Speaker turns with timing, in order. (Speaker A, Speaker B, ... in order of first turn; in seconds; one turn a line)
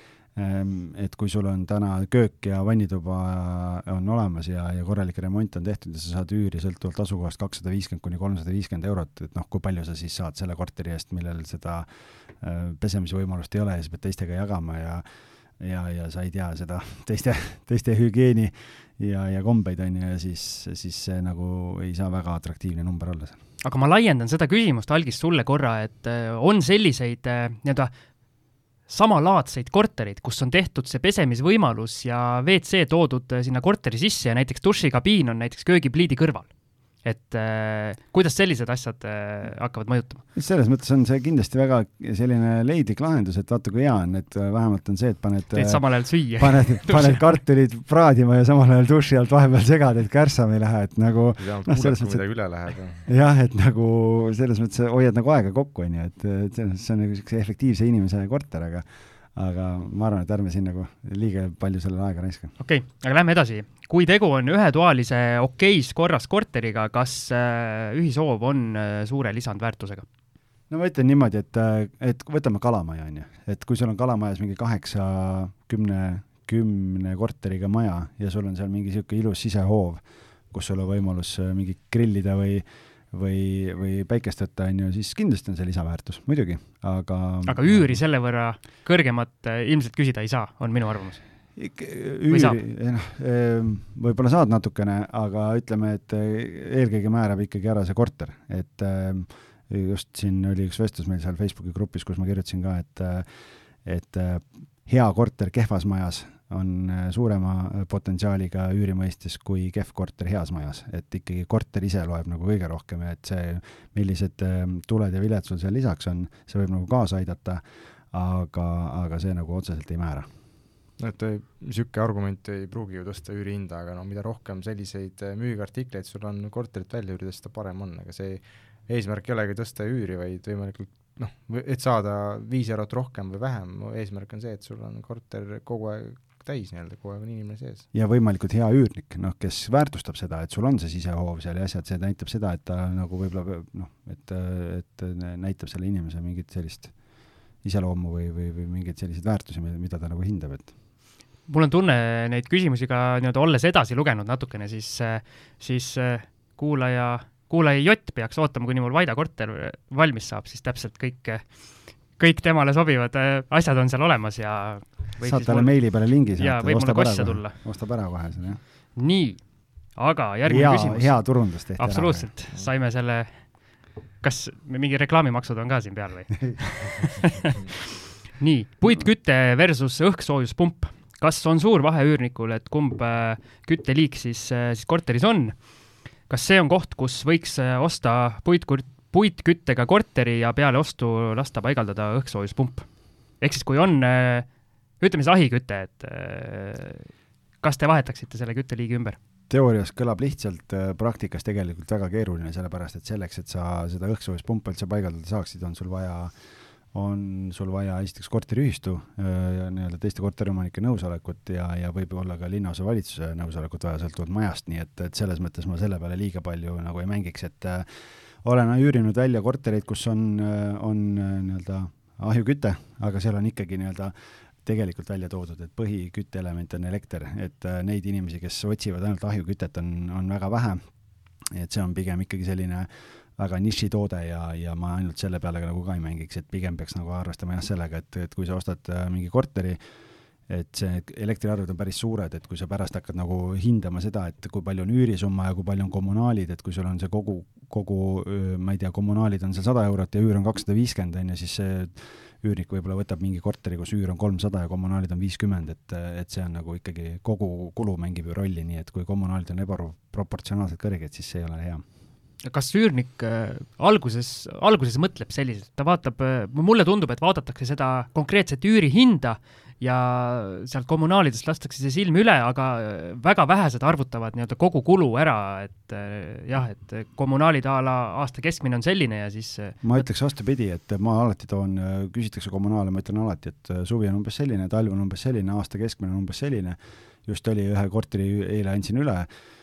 Speaker A: 0.3-15.1
Speaker A: 15.6-23.4
Speaker B: 23.6-27.9
Speaker B: 28.9-36.5
Speaker B: 37.0-40.2
Speaker A: 40.3-52.2
Speaker B: 45.5-47.3
Speaker C: 51.4-53.1
Speaker A: 53.0-62.5
Speaker B: 62.6-70.0
Speaker A: 70.7-88.0
Speaker B: 87.5-91.2
Speaker A: 91.5-103.3
Speaker B: 92.3-92.6
Speaker A: 103.8-120.3
Speaker C: 121.0-137.8
Speaker A: 137.9-147.0
Speaker A: 147.6-150.7
Speaker B: 151.5-167.6
Speaker A: 165.2-168.6
Speaker B: 168.9-169.4
Speaker B: 169.9-173.6
Speaker A: 170.4-172.3
Speaker B: 174.2-177.7
Speaker B: 178.2-185.6
Speaker B: 186.3-192.9
Speaker B: 193.4-194.5
Speaker B: 195.0-197.1
Speaker B: 197.6-199.2
Speaker A: 199.5-206.3
Speaker A: 206.9-230.9
Speaker A: 231.5-239.8
Speaker A: 240.5-261.8
Speaker B: 262.4-280.1
Speaker A: 279.8-289.3